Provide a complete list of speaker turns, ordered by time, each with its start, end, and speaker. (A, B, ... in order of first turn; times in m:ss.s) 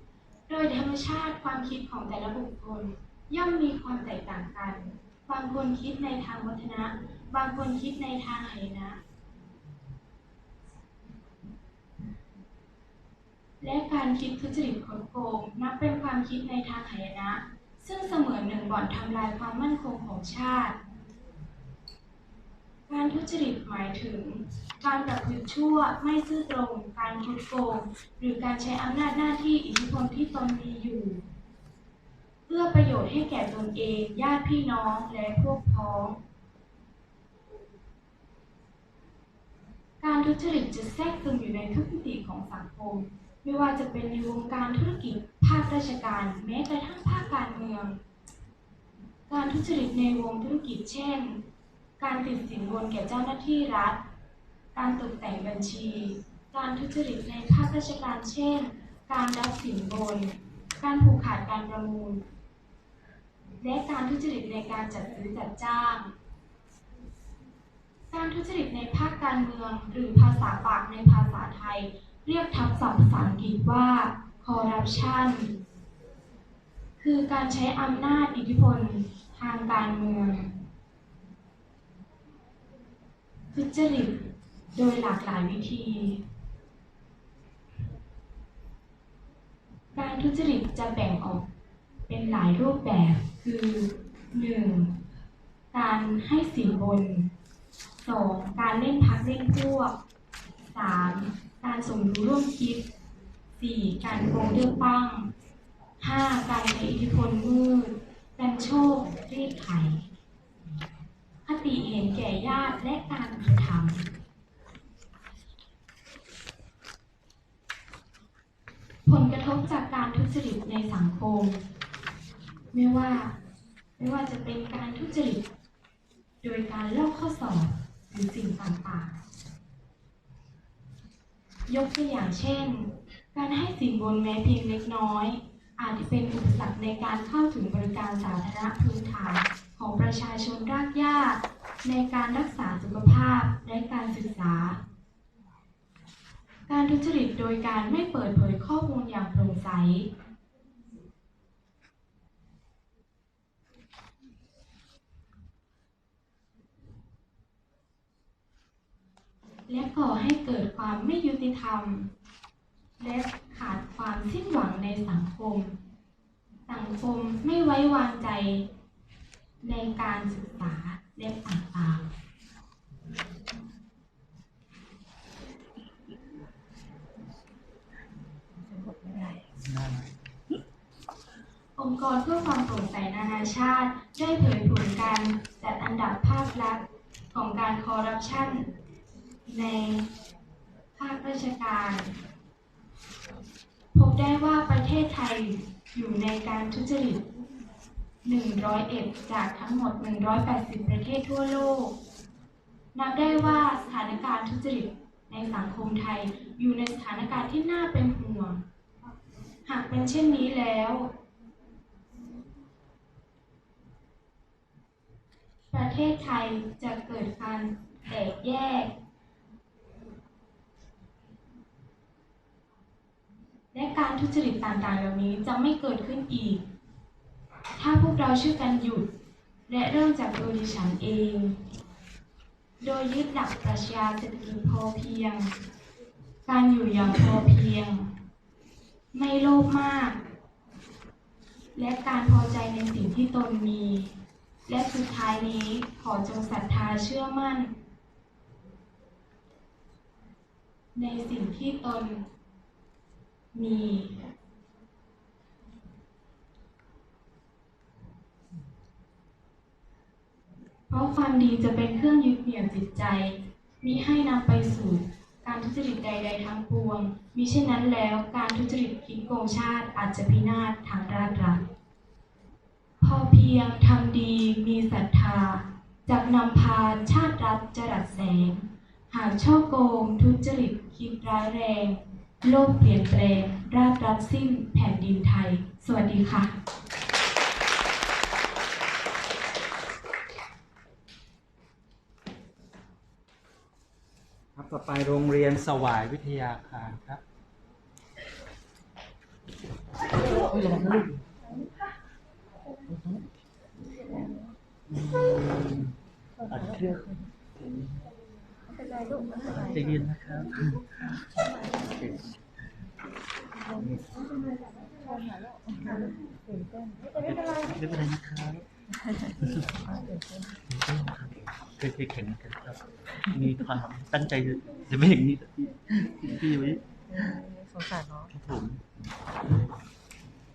0:00.5-0:09.0 A
0:13.6-0:20.8 A
0:22.9-0:31.2 A
0:32.5-0:36.2 A
0:40.0-0:48.0 A
0:49.3-0:51.4 A
0:52.0-0:54.0 A
0:54.7-1:02.2 A
1:03.6-1:06.1 A
1:08.1-1:15.5 A
1:17.0-1:20.5 A
1:23.5-1:24.2 A
1:24.7-1:26.2 A
1:30.0-1:31.4 A
1:32.1-1:34.9 A
1:35.7-1:37.3 A
1:38.0-1:40.0 A
1:40.7-1:42.8 A
1:43.6-1:45.3 A
1:46.0-1:50.0 A
1:51.4-1:54.1 A
1:59.0-2:01.6 A
2:02.7-2:03.3 A
2:04.0-2:05.4 A
2:06.4-2:09.2 A
2:11.7-2:24.8 A
2:26.7-2:30.1 A
2:39.7-2:42.1 A
2:43.0-2:45.8 A
2:46.7-2:48.7 A
2:49.6-2:52.1 A
2:58.8-2:59.4 B
2:59.6-3:00.1 C
3:01.8-3:08.7 A
3:09.4-3:10.1 A
3:10.9-3:12.1 A
3:13.9-3:17.2 A
3:18.2-3:22.0 A
3:22.9-3:28.6 A
3:29.6-3:31.1 A
3:35.7-3:38.9 A
3:43.7-3:46.6 A
3:47.8-3:49.1 A
3:49.7-3:51.6 A
3:52.8-3:55.5 A
3:56.4-3:58.1 A
3:59.1-4:00.2 A
4:01.7-4:04.1 A
4:04.7-4:07.7 A
4:11.0-4:12.2 A
4:13.5-4:14.1 A
4:20.9-4:31.6 A
4:33.0-4:46.5 A
4:54.6-4:57.2 C
5:00.2-5:01.2 C
5:04.9-5:05.9 C
5:06.4-5:07.9 C
5:08.8-5:09.5 B
5:09.5-5:12.4 C
5:13.9-5:14.6 B
5:15.1-5:17.1 B
5:17.1-5:18.6 C
5:19.4-5:19.7 C
5:19.9-5:20.5 B
5:20.7-5:27.1 C
5:27.2-5:28.3 B
5:28.3-5:28.8 C